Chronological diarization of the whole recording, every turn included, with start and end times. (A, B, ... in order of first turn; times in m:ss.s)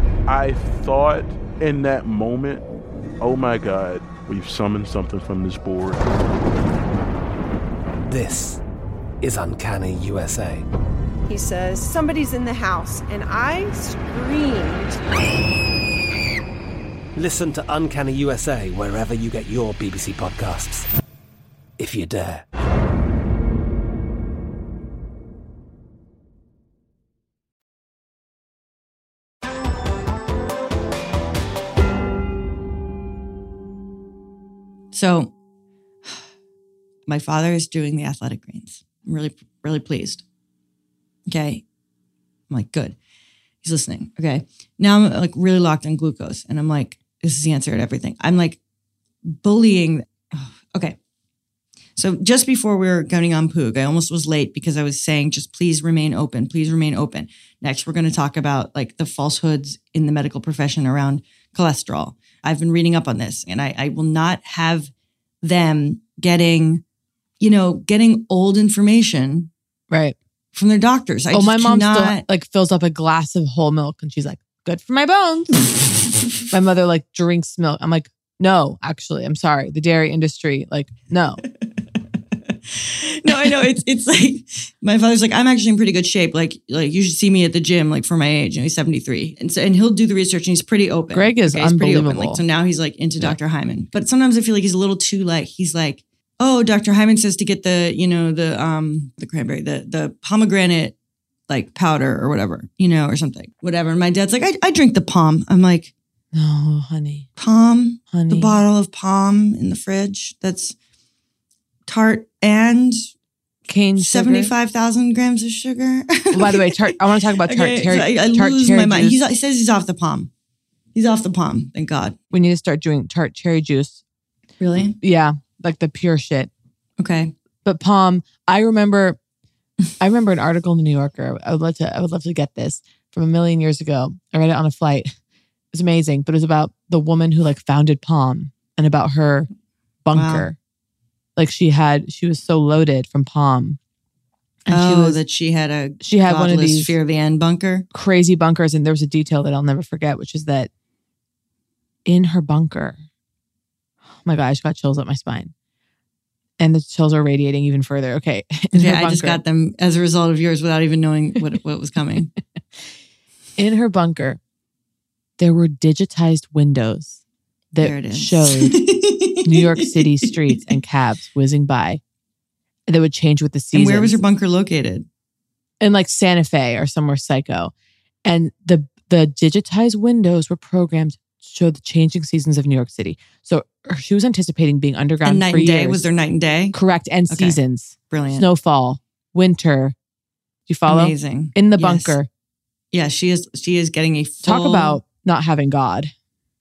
0:00.3-0:02.6 A
0:03.2-0:06.0 A
0:08.1-0:08.6 B
0:09.2-0:10.6 B
0:11.3-0:15.0 C
0:17.2-0:20.9 B
0:21.8-0:22.4 B
0:34.9-0:35.3 D
0:37.1-0:40.2 D
0:41.3-0:41.6 D
0:42.5-0:43.0 D
0:43.6-0:48.6 D
0:49.2-0:51.0 D
0:52.0-1:04.9 D
1:05.4-1:06.8 D
1:07.4-1:09.5 D
1:09.9-1:10.2 E
1:10.5-1:12.2 D
1:11.3-1:15.6 E
1:16.5-1:21.4 E
1:23.0-1:40.9 D
1:31.1-1:32.4 E
1:41.5-1:45.9 D
1:46.3-1:47.3 E
1:47.4-1:50.8 D
1:48.1-1:48.6 E
1:51.9-1:53.0 D
1:53.7-1:54.5 E
1:54.0-1:56.8 D
1:56.3-1:59.2 E
1:57.4-2:00.3 D
2:00.9-2:02.2 D
2:02.3-2:04.0 E
2:04.6-2:05.0 D
2:05.0-2:06.5 E
2:07.0-2:07.3 D
2:07.6-2:09.2 E
2:10.0-2:15.1 E
2:15.7-2:19.5 E
2:20.0-2:20.6 E
2:20.1-2:20.5 D
2:21.4-2:23.8 E
2:24.7-2:25.2 E
2:24.7-2:27.9 D
2:26.0-2:26.9 E
2:27.9-2:30.7 E
2:32.1-2:33.0 E
2:34.2-2:35.5 E
2:36.6-2:39.4 E
2:38.8-2:42.3 D
2:43.6-2:44.4 E
2:45.4-2:47.2 E
2:47.7-2:48.8 E
2:47.8-2:50.7 D
2:49.4-2:52.0 E
2:52.9-2:54.2 E
2:53.7-2:55.1 D
2:55.8-2:57.7 E
2:58.2-3:06.1 E
3:05.2-3:06.8 D
3:06.7-3:09.9 E
3:07.3-3:07.6 D
3:08.1-3:08.4 D
3:10.7-3:12.3 E
3:10.9-3:12.2 D
3:12.9-3:15.0 D
3:14.4-3:16.1 E